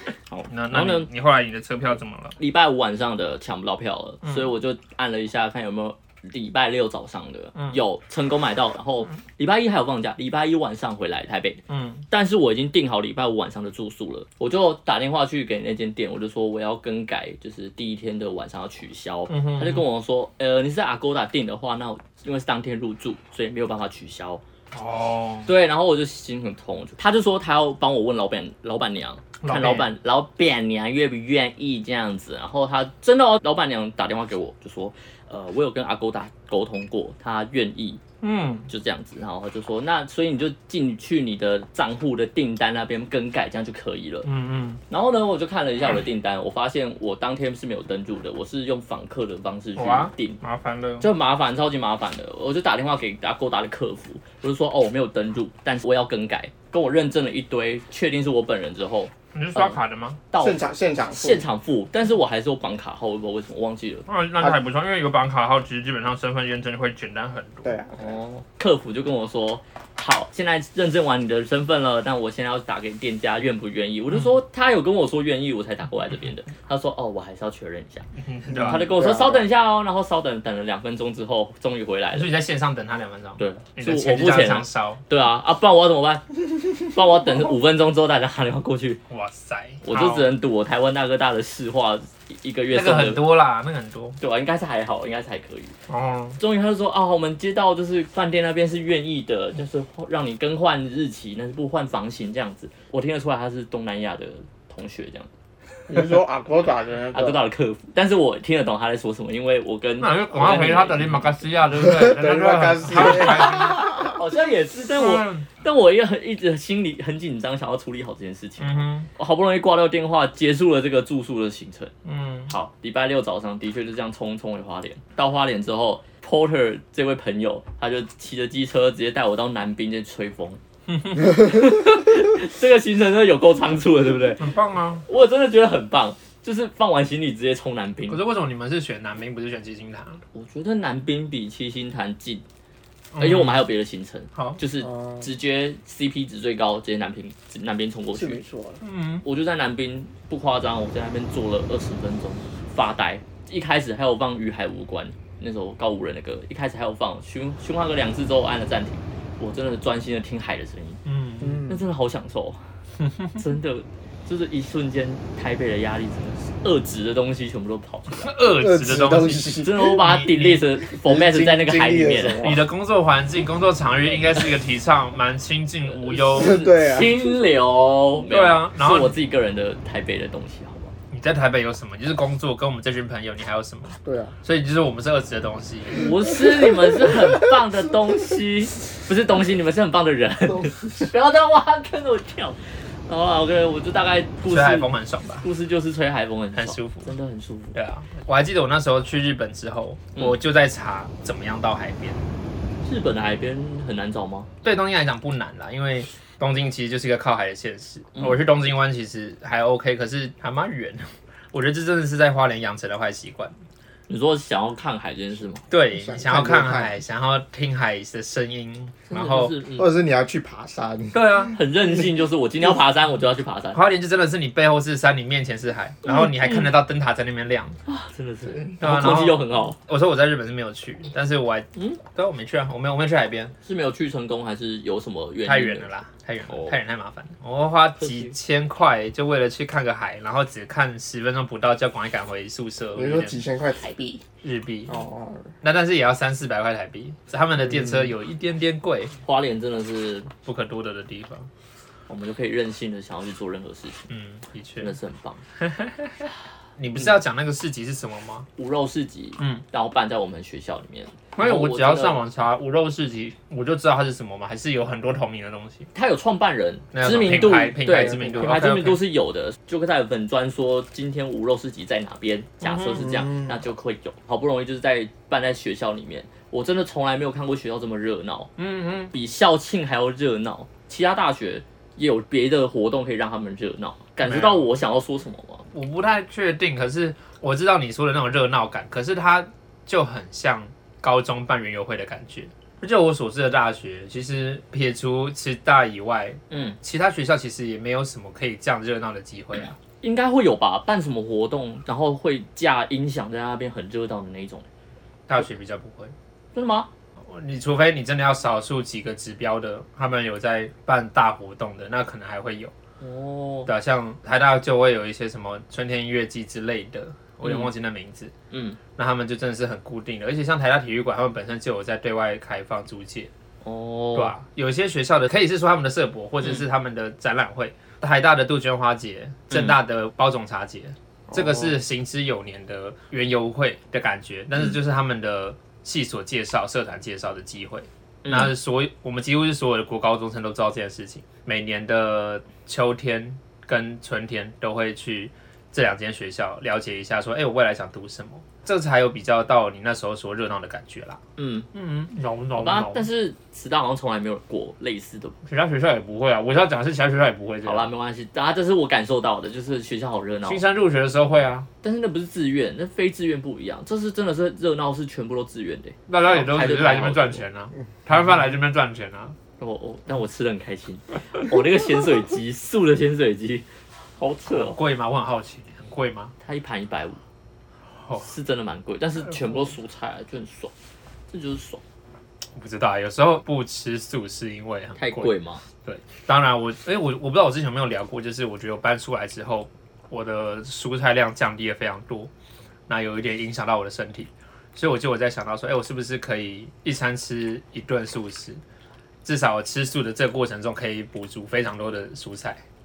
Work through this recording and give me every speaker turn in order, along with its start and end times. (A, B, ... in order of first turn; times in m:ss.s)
0:00.3-0:01.1 A
0:00.5-0:02.4 B
0:02.4-0:24.4 A
0:11.7-0:12.0 B
0:19.3-0:19.8 B
0:24.7-0:25.5 B
0:25.5-0:38.0 A
0:29.4-0:29.9 B
0:38.2-0:38.7 B
0:38.7-0:44.3 A
0:44.2-0:44.8 B
0:44.9-0:50.4 A
0:49.8-0:51.1 B
0:51.0-0:59.8 A
0:59.3-1:00.2 B
1:00.3-1:04.1 A
1:00.4-1:01.4 C
1:04.1-1:07.8 B
1:07.6-1:08.2 C
1:08.0-1:22.3 A
1:18.2-1:18.9 B
1:18.5-1:19.5 C
1:22.1-1:25.0 B
1:23.4-1:29.0 A
1:29.1-1:30.3 B
1:29.8-1:33.2 A
1:32.7-1:34.2 B
1:34.2-1:35.8 A
1:35.9-1:36.4 B
1:36.4-1:45.3 A
1:45.9-1:47.4 C
1:47.1-1:51.3 A
1:50.0-1:53.9 B
1:51.8-1:54.2 C
1:52.9-2:01.9 A
1:55.0-1:55.5 B
1:58.6-1:59.1 B
2:02.0-2:02.5 B
2:02.5-2:10.6 A
2:10.9-2:11.8 B
2:11.2-2:14.5 A
2:14.4-2:15.0 B
2:15.1-2:18.2 A
2:18.1-2:20.2 B
2:20.3-2:22.4 A
2:23.1-2:23.7 B
2:23.2-2:28.4 A
2:24.8-2:25.3 C
2:28.1-2:28.8 C
2:28.8-2:29.2 B
2:29.2-2:41.0 A
2:41.0-2:41.6 B
2:41.4-2:41.8 C
2:41.6-2:42.6 A
2:43.1-2:43.4 B
2:43.4-2:48.4 A
2:48.2-2:50.7 B
2:48.5-2:50.1 C
2:49.6-2:52.6 A
2:50.9-2:52.6 C
2:52.4-2:56.6 B
2:55.9-3:00.9 A
2:56.1-2:57.2 C
2:58.3-2:59.2 B
3:01.1-3:06.1 B
3:04.0-3:04.4 C
3:06.0-3:14.9 A
3:06.4-3:07.4 C
3:10.5-3:11.0 C
3:14.5-3:15.5 B
3:15.4-3:17.8 A
3:16.6-3:17.1 B
3:17.7-3:22.3 B
3:22.8-3:24.5 A
3:24.6-3:33.6 B
3:28.2-3:28.4 A
3:34.1-3:35.6 A
3:35.7-3:39.6 B
3:35.9-3:37.0 C
3:39.1-3:39.9 A
3:39.8-3:41.3 C
3:41.1-3:41.6 B
3:41.5-3:43.8 A
3:43.7-3:47.8 B
3:46.1-3:46.7 A
3:47.9-3:49.8 A
3:48.8-3:53.6 B
3:51.8-3:52.0 A
3:53.6-3:55.9 A
3:55.4-4:03.4 B
3:56.5-3:56.8 A
3:58.0-3:58.3 A
4:03.0-4:04.2 C
4:04.4-4:05.0 B
4:04.9-4:05.5 C
4:05.6-4:09.1 B
4:09.2-4:10.3 A
4:10.4-4:11.5 B
4:12.1-4:14.0 A
4:14.1-4:15.0 B
4:14.8-4:15.4 A
4:15.6-4:18.5 B
4:18.6-4:22.2 A
4:21.4-4:25.9 B
4:25.9-4:38.5 A
4:26.9-4:29.0 B
4:27.9-4:28.6 C
4:32.6-4:33.2 B
4:33.0-4:33.6 C
4:38.6-4:39.1 B
4:39.1-4:45.7 A
4:44.2-4:44.7 B
4:45.7-4:59.8 B
4:56.5-4:56.8 A
5:00.0-5:04.7 A
5:05.3-5:06.1 B
5:06.5-5:06.9 A
5:07.2-5:12.7 B
5:13.0-5:13.7 A
5:13.7-5:18.3 B
5:17.4-5:17.7 A
5:18.5-5:18.8 A
5:19.0-5:23.3 B
5:23.6-5:24.4 A
5:24.2-5:51.2 B
5:29.5-5:29.8 A
5:38.2-5:38.5 A
5:51.4-5:51.7 A
5:51.7-5:53.1 B
5:52.6-5:55.4 A
5:55.4-5:57.9 B
5:57.6-6:00.6 A
6:00.5-6:01.7 B
6:01.8-6:07.4 A
6:06.1-6:09.4 B
6:09.6-6:14.8 A
6:14.5-6:16.3 B
6:16.4-6:17.2 A
6:18.2-6:20.7 A
6:21.3-6:21.8 A
6:22.6-6:25.3 B
6:25.0-6:25.6 A
6:25.8-6:32.3 B
6:32.9-6:38.6 B
6:39.2-6:42.6 B